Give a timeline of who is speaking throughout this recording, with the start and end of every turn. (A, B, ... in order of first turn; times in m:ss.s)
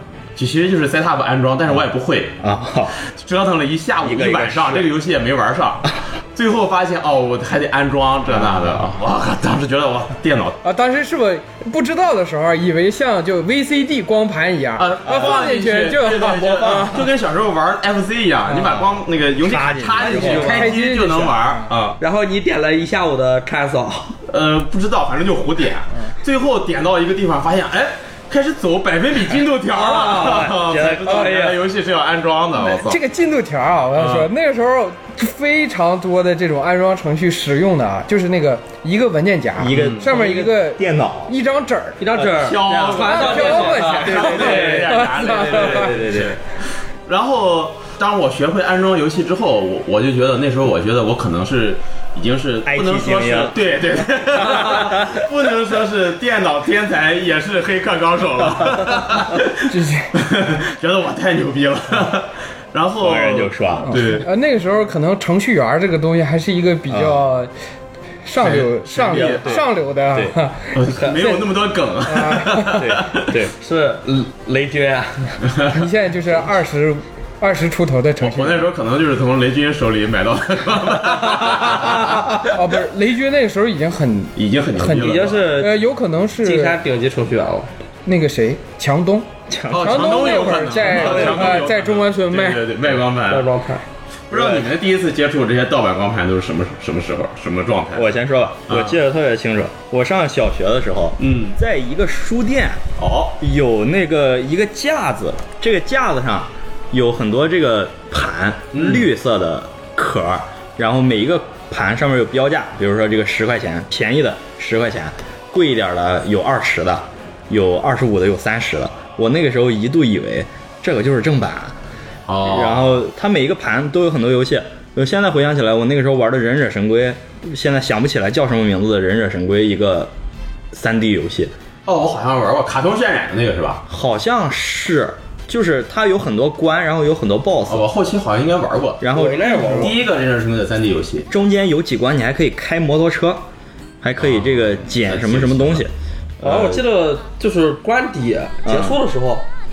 0:00.4-0:02.4 A
0:02.4-0:03.0 B
0:03.1-0:10.6 A
0:04.0-0:04.9 B
0:08.3-0:08.8 B
0:10.6-0:17.1 C
0:14.8-0:22.0 A
0:18.5-0:20.7 B
0:20.0-0:20.7 D
0:20.2-0:21.7 C
0:22.0-0:24.2 D
0:24.3-0:33.0 A
0:29.7-0:31.6 D
0:30.6-0:31.3 B
0:32.6-0:42.0 C
0:34.0-0:34.3 A
0:39.6-0:41.3 B
0:39.7-0:40.1 A
0:42.0-0:45.0 D
0:42.2-0:46.4 A
0:42.2-0:43.3 B
0:42.9-0:45.9 C
0:45.1-0:46.4 B
0:47.1-1:04.3 A
0:52.6-0:53.6 B
0:54.5-0:55.2 B
0:59.7-1:00.1 C
1:03.0-1:04.0 B
1:03.8-1:07.5 C
1:06.9-1:07.3 B
1:08.2-1:11.5 C
1:08.4-1:09.6 A
1:09.0-1:10.4 B
1:10.7-1:13.4 A
1:12.0-1:12.9 C
1:12.8-1:13.5 B
1:13.6-1:15.4 D
1:15.4-1:15.8 A
1:15.7-1:18.7 C
1:18.2-1:22.5 A
1:21.4-1:22.0 D
1:22.4-1:26.8 C
1:24.4-1:25.5 A
1:24.8-1:25.8 D
1:26.4-1:27.7 D
1:28.1-1:32.6 C
1:29.5-1:31.6 B
1:29.7-1:33.5 A
1:33.3-1:33.8 D
1:34.3-1:38.1 A
1:34.3-1:34.7 B
1:37.9-1:42.8 B
1:38.7-1:39.0 A
1:41.2-1:41.6 A
1:43.0-1:43.4 A
1:43.4-2:01.8 B
1:48.7-1:49.1 A
2:02.3-2:03.0 A
2:02.4-2:10.1 B
2:10.7-2:11.5 B
2:11.9-2:13.8 A
2:13.9-2:17.9 B
2:17.7-2:19.1 A
2:19.0-2:20.0 B
2:19.1-2:20.0 D
2:19.6-2:21.3 A
2:21.3-2:23.4 B
2:24.0-2:26.8 B
2:24.2-2:25.9 A
2:26.4-2:29.4 D
2:28.6-2:29.0 B